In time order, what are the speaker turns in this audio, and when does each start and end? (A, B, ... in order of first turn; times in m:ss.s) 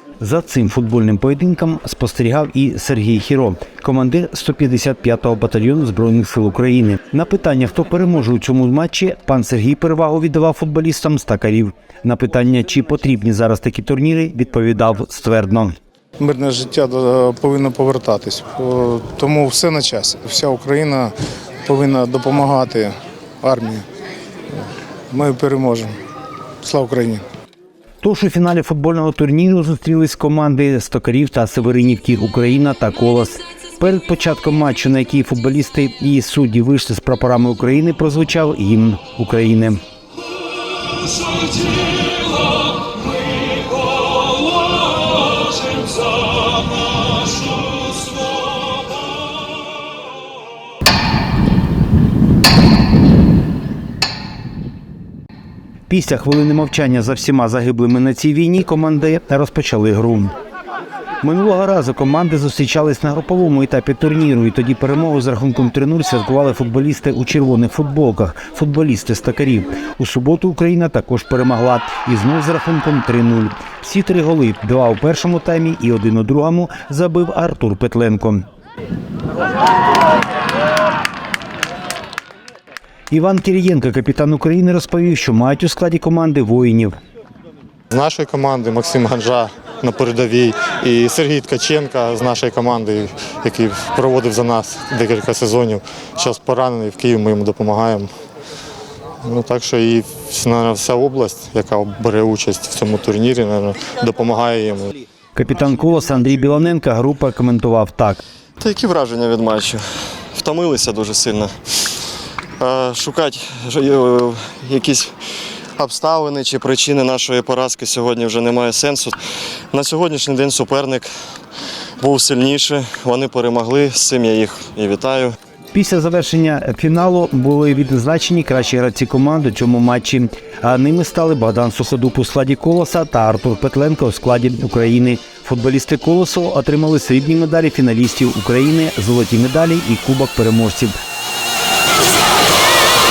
0:00.2-0:15.8 A
0:16.2-0:21.1 B
0:21.6-0:23.8 B
0:25.1-0:25.9 B
0:26.6-0:27.2 B
0:28.0-0:39.8 A
0:55.9-1:00.3 A
1:01.2-1:18.4 A
1:23.1-1:27.0 A
1:27.9-1:38.1 C
1:39.2-1:44.9 C
1:45.4-1:48.2 A
1:48.6-1:49.8 D
1:50.3-1:51.5 D
1:52.6-1:55.1 D
1:55.8-1:59.2 D
1:59.7-2:01.1 D
2:02.0-2:05.4 D
2:05.7-2:20.9 A